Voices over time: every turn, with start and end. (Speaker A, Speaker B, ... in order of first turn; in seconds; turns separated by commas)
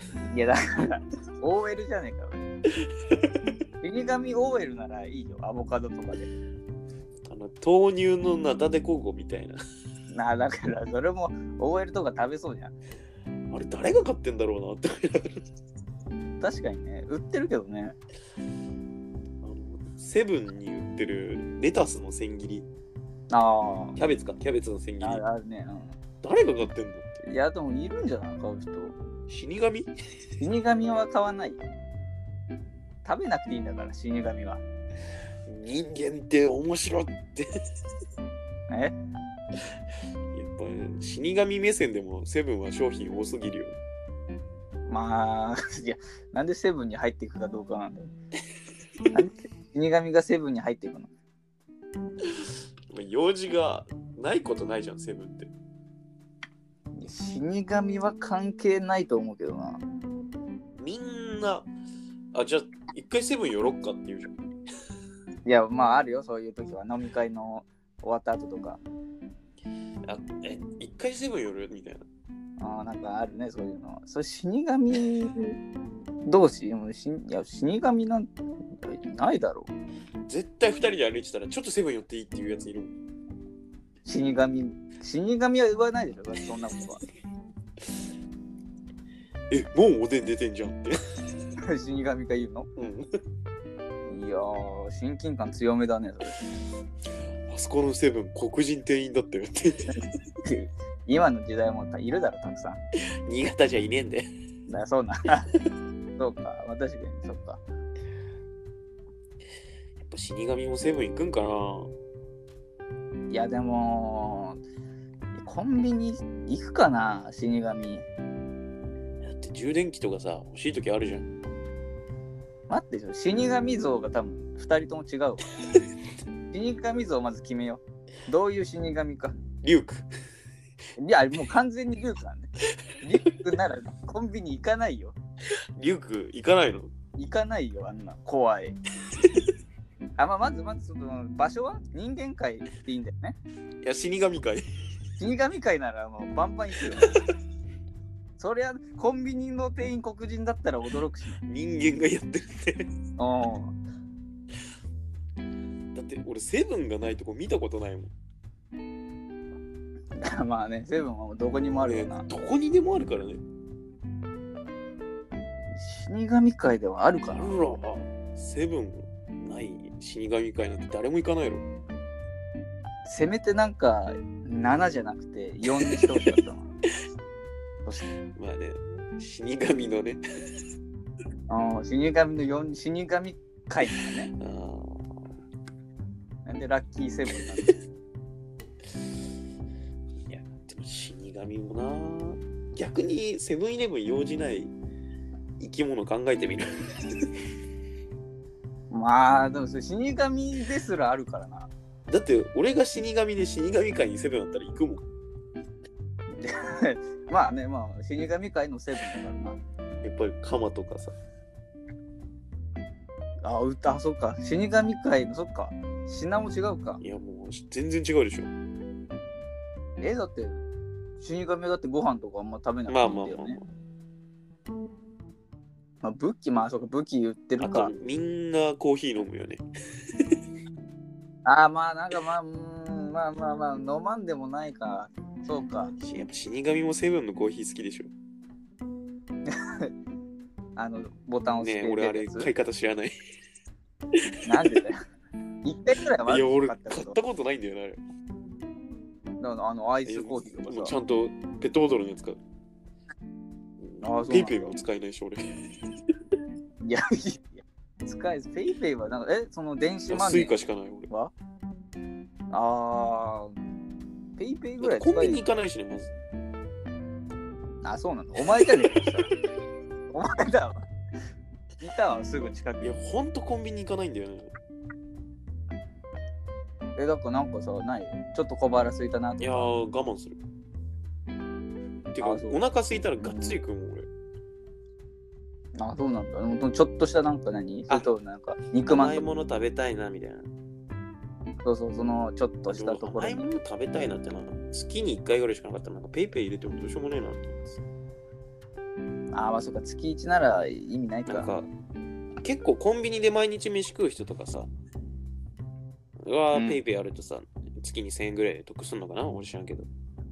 Speaker A: 0.3-2.4, Speaker A: 3.8-6.3, Speaker B: 7.3-9.6, Speaker A: 10.1-12.7, Speaker B: 13.5-15.4, Speaker A: 16.4-18.0, Speaker B: 19.4-22.7, Speaker A: 23.3-24.0, Speaker B: 24.0-25.2, Speaker A: 25.0-26.0, Speaker B: 26.2-27.2, Speaker A: 27.3-29.0, Speaker B: 29.3-29.9, Speaker A: 30.4-31.6, Speaker A: 33.0-34.6, Speaker B: 35.5-37.5, Speaker A: 38.7-39.0, Speaker B: 40.3-43.8, Speaker A: 44.9-48.1, Speaker A: 49.1-51.1, Speaker B: 52.9-55.5, Speaker A: 57.0-59.8, Speaker B: 60.8-61.7, Speaker B: 62.3-64.3, Speaker A: 65.5-68.8, Speaker B: 70.1-72.1, Speaker A: 72.6-75.6, Speaker A: 76.3-79.7, Speaker B: 80.3-83.0, Speaker A: 84.0-87.0, Speaker B: 89.5-91.0, Speaker A: 91.6-92.7, Speaker B: 92.8-93.1, Speaker A: 94.1-96.4, Speaker B: 97.5-100.0, Speaker A: 99.9-102.8, Speaker B: 103.3-104.3, Speaker A: 104.7-105.5, Speaker A: 106.2-107.6, Speaker B: 110.0-111.9, Speaker A: 113.3-114.6, Speaker A: 115.3-118.1, Speaker B: 119.2-121.3, Speaker A: 122.7-125.5, Speaker A: 126.5-129.4, Speaker B: 129.6-130.1, Speaker A: 131.0-135.2, Speaker B: 135.8-136.9, Speaker A: 137.2-138.8, Speaker A: 140.2-143.4, Speaker B: 143.8-144.6, Speaker A: 145.2-147.2, Speaker A: 148.4-151.4, Speaker B: 151.4-152.9, Speaker A: 153.2-153.8, Speaker B: 155.9-158.1, Speaker A: 160.2-162.3, Speaker B: 161.8-163.4, Speaker A: 165.7-167.6, Speaker B: 167.3-171.7, Speaker A: 173.1-176.7, Speaker B: 175.9-176.3, Speaker B: 178.3-180.2, Speaker A: 181.5-184.3, Speaker B: 184.4-185.3, Speaker A: 186.5-187.8, Speaker B: 190.3-194.7, Speaker B: 195.6-197.3, Speaker A: 198.9-201.7, Speaker B: 202.1-205.0, Speaker A: 206.3-209.6, Speaker B: 210.0-211.2, Speaker A: 213.4-217.0, Speaker B: 217.0-218.5, Speaker A: 220.0-220.6, Speaker A: 221.2-223.6, Speaker B: 222.9-223.7, Speaker A: 226.0-227.9, Speaker B: 227.6-229.6, Speaker A: 231.4-235.9, Speaker B: 236.0-238.1, Speaker A: 239.5-239.9, Speaker A: 240.8-242.5, Speaker B: 241.6-243.2, Speaker A: 244.4-245.0, Speaker A: 245.6-247.2, Speaker B: 246.3-248.0, Speaker A: 249.4-250.9, Speaker B: 250.1-252.4, Speaker B: 253.8-255.4, Speaker A: 254.0-254.8, Speaker A: 256.8-260.5, Speaker B: 260.1-261.1, Speaker A: 262.5-263.6, Speaker A: 264.4-265.5, Speaker B: 264.8-266.1, Speaker A: 267.8-269.3, Speaker B: 268.4-269.1, Speaker A: 270.1-270.8, Speaker A: 271.8-273.0, Speaker B: 272.8-274.5, Speaker A: 277.0-279.7, Speaker B: 279.4-280.4, Speaker B: 282.1-284.1, Speaker A: 282.2-282.6, Speaker A: 283.2-283.6, Speaker A: 285.8-289.3, Speaker B: 288.9-290.5, Speaker A: 291.6-293.6, Speaker B: 292.7-297.8, Speaker A: 299.3-301.5, Speaker B: 301.3-301.7, Speaker B: 302.4-304.7, Speaker B: 306.2-309.9, Speaker A: 306.5-306.8